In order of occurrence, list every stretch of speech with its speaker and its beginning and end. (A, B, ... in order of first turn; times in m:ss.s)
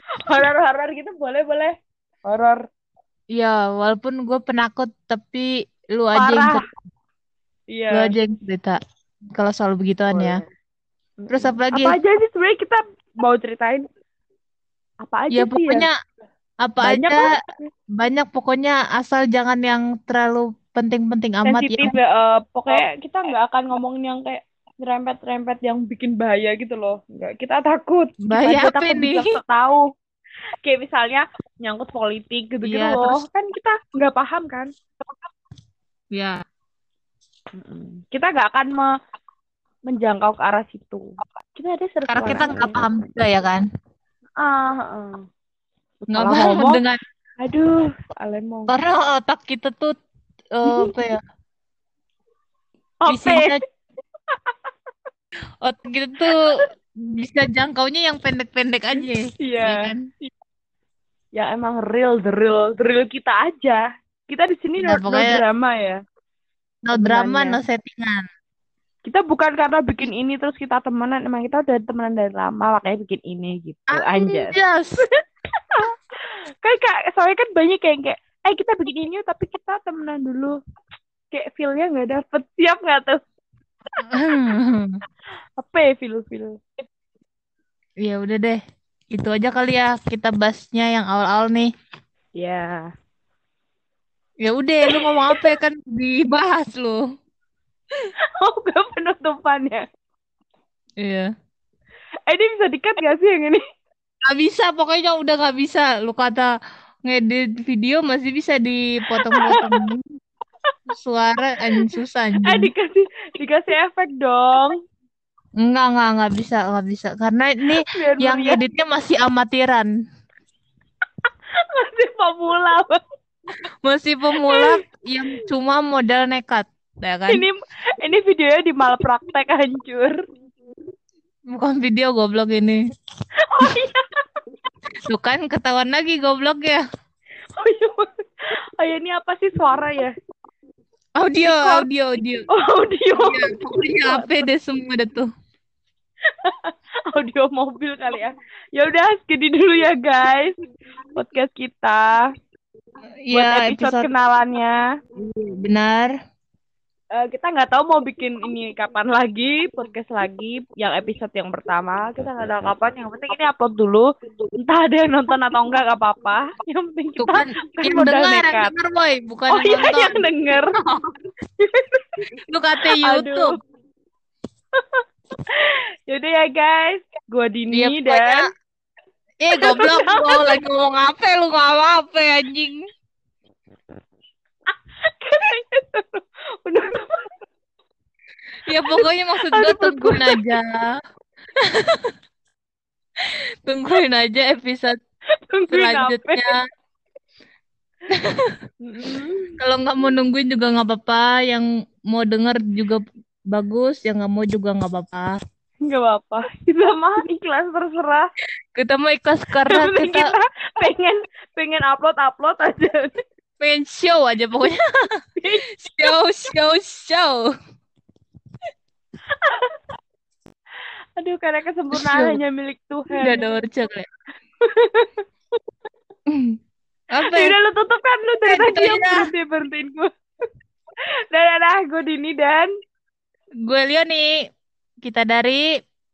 0:00.2-0:01.7 A
0:02.2-0:02.6 A
0:03.3-0:06.6 B
0:06.1-0:06.6 A
0:07.7-0:08.1 A
0:07.9-0:08.8 B
0:09.4-0:10.4 B
0:10.1-0:10.5 A
0:11.2-0:13.9 A
0:11.3-0:12.0 B
0:15.0-0:15.9 A
0:15.3-0:15.9 B
0:16.6-0:17.2 B
0:16.8-0:17.7 A
0:17.9-0:21.9 B
0:21.4-0:29.9 A
0:28.2-0:29.3 B
0:30.6-0:34.7 A
0:32.6-0:33.2 B
0:37.6-0:38.9 A
0:39.9-0:42.8 A
0:42.1-0:43.6 B
0:44.4-0:45.2 A
0:46.1-0:46.8 A
0:46.1-0:47.0 B
0:47.4-0:48.7 A
0:48.7-0:49.9 B
0:50.6-0:51.2 B
0:50.6-0:50.9 A
0:53.0-0:53.6 A
0:53.1-0:53.6 B
0:55.6-0:56.4 B
0:56.3-0:56.6 A
0:57.0-1:00.0 B
0:59.4-1:00.3 A
1:01.4-1:06.0 A
1:04.8-1:05.4 B
1:06.8-1:08.2 B
1:06.9-1:07.6 A
1:09.0-1:15.1 A
1:13.9-1:15.0 B
1:15.7-1:20.6 A
1:21.3-1:23.2 A
1:24.1-1:25.0 B
1:25.6-1:26.6 A
1:28.0-1:28.6 B
1:29.1-1:31.7 B
1:32.4-1:32.9 A
1:34.4-1:37.0 B
1:34.9-1:35.4 A
1:38.4-1:39.8 A
1:41.0-1:41.3 B
1:42.3-1:43.6 A
1:44.3-1:46.5 B
1:47.0-1:50.2 B
1:49.3-1:49.8 A
1:50.9-1:52.7 B
1:52.4-1:54.8 A
1:55.6-1:59.9 B
1:57.8-1:58.6 A
2:01.6-2:03.0 A
2:03.8-2:07.4 B
2:04.4-2:04.7 A
2:07.3-2:10.2 A
2:11.5-2:12.8 B
2:13.5-2:14.0 A
2:15.1-2:16.8 B
2:17.6-2:18.1 A
2:18.8-2:20.1 A
2:21.2-2:22.5 B
2:21.4-2:21.8 A
2:22.5-2:24.4 A
2:23.2-2:25.3 B
2:26.4-2:30.6 A
2:31.1-2:32.3 A
2:33.2-2:34.1 B
2:33.3-2:34.8 A
2:35.2-2:36.1 B
2:37.1-2:44.1 A
2:44.6-2:48.7 A
2:47.2-2:51.1 B
2:49.5-2:50.7 A
2:51.6-2:52.2 A
2:52.5-2:53.5 B
2:53.0-2:53.6 A
2:54.8-2:58.4 A
2:57.7-2:58.4 B
2:59.4-3:02.8 B
2:59.6-3:00.4 A
3:05.1-3:07.3 A
3:08.6-3:10.9 B
3:08.9-3:10.4 A
3:11.6-3:12.1 B
3:13.6-3:14.9 B
3:15.5-3:16.5 A
3:15.7-3:16.6 B
3:18.1-3:18.5 B
3:18.8-3:19.5 A
3:19.6-3:25.4 B
3:25.8-3:28.3 A
3:28.7-3:30.3 B
3:29.6-3:33.2 A
3:33.6-3:34.8 B
3:35.4-3:36.1 A
3:35.8-3:37.5 B
3:39.4-3:39.8 A
3:41.2-3:43.5 A
3:41.9-3:42.4 B
3:43.2-3:44.0 B
3:44.6-3:45.2 A
3:46.3-3:46.6 B
3:47.1-3:47.5 B
3:47.2-3:50.1 A
3:48.5-3:49.3 B
3:51.3-3:52.7 A
3:53.6-3:54.3 B
3:55.0-3:55.6 B